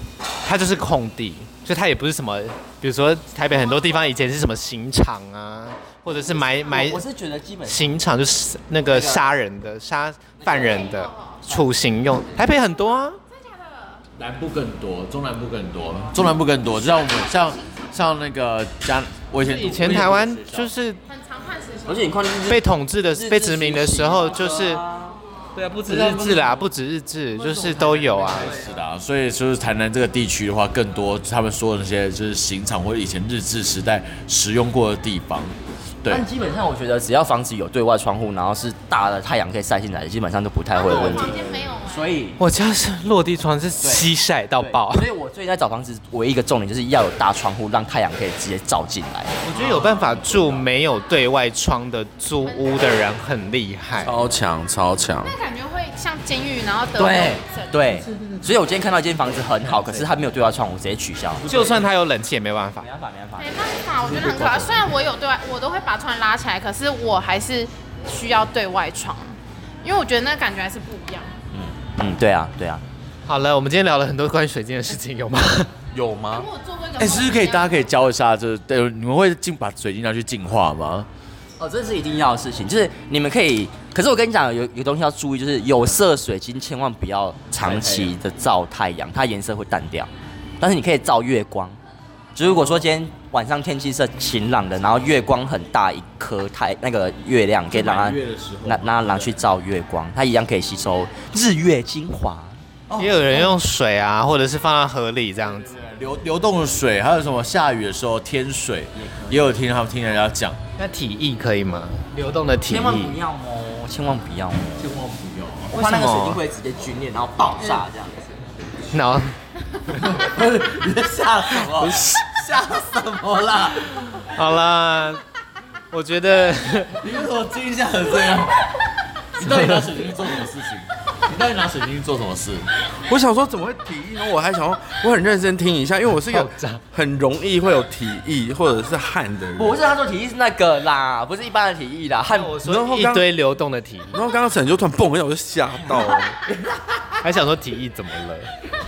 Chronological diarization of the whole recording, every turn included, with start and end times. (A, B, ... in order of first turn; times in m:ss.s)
0:00.4-0:07.0 A
0:03.5-0:04.0 B
0:06.3-0:07.9 C
0:07.6-0:13.2 A
0:08.8-0:09.3 C
0:10.4-0:10.9 C
0:10.8-0:11.4 B
0:13.3-0:14.0 B
0:14.2-0:20.5 D
0:16.7-0:17.9 B
0:19.4-0:21.0 A
0:19.9-0:20.7 C
0:21.1-0:22.1 B
0:21.9-0:25.2 C
0:22.4-0:24.8 A
0:25.6-0:26.7 D
0:25.8-0:28.6 A
0:27.3-0:36.2 D
0:28.4-0:28.6 C
0:36.1-0:42.4 C
0:40.7-0:42.1 B
0:40.8-0:41.8 D
0:42.4-0:45.1 A
0:43.8-0:49.3 C
0:49.4-0:50.6 D
0:49.5-0:54.2 A
0:54.0-0:55.3 E
0:55.2-0:57.8 B
0:57.0-1:01.5 C
0:58.1-0:58.5 D
0:59.7-1:00.0 D
1:01.4-1:01.8 D
1:01.5-1:02.9 A
1:02.8-1:04.9 C
1:03.4-1:11.3 B
1:11.5-1:12.8 C
1:13.3-1:15.7 A
1:15.9-1:16.5 E
1:16.3-1:17.9 B
1:17.0-1:21.1 D
1:21.6-1:30.1 C
1:27.6-1:28.1 D
1:30.6-1:31.8 C
1:32.3-1:42.6 C
1:32.4-1:32.8 D
1:37.7-1:39.4 D
1:42.9-1:43.5 D
1:43.0-1:45.7 A
1:45.5-1:50.6 D
1:49.0-1:49.5 C
1:50.8-1:53.2 A
1:52.6-1:55.0 C
1:54.8-1:55.7 D
1:55.7-1:56.4 A
1:55.7-1:58.4 C
1:58.9-1:59.4 A
2:00.0-2:04.2 D
2:01.8-2:02.2 A
2:04.3-2:05.2 A
2:05.9-2:07.0 A
2:07.0-2:08.7 D
2:09.3-2:12.7 D
2:09.4-2:09.9 A
2:13.1-2:19.8 E
2:16.3-2:16.8 A
2:19.6-2:22.6 C
2:22.3-2:24.2 A
2:22.6-2:23.3 E
2:24.1-2:26.4 E
2:27.2-2:28.5 A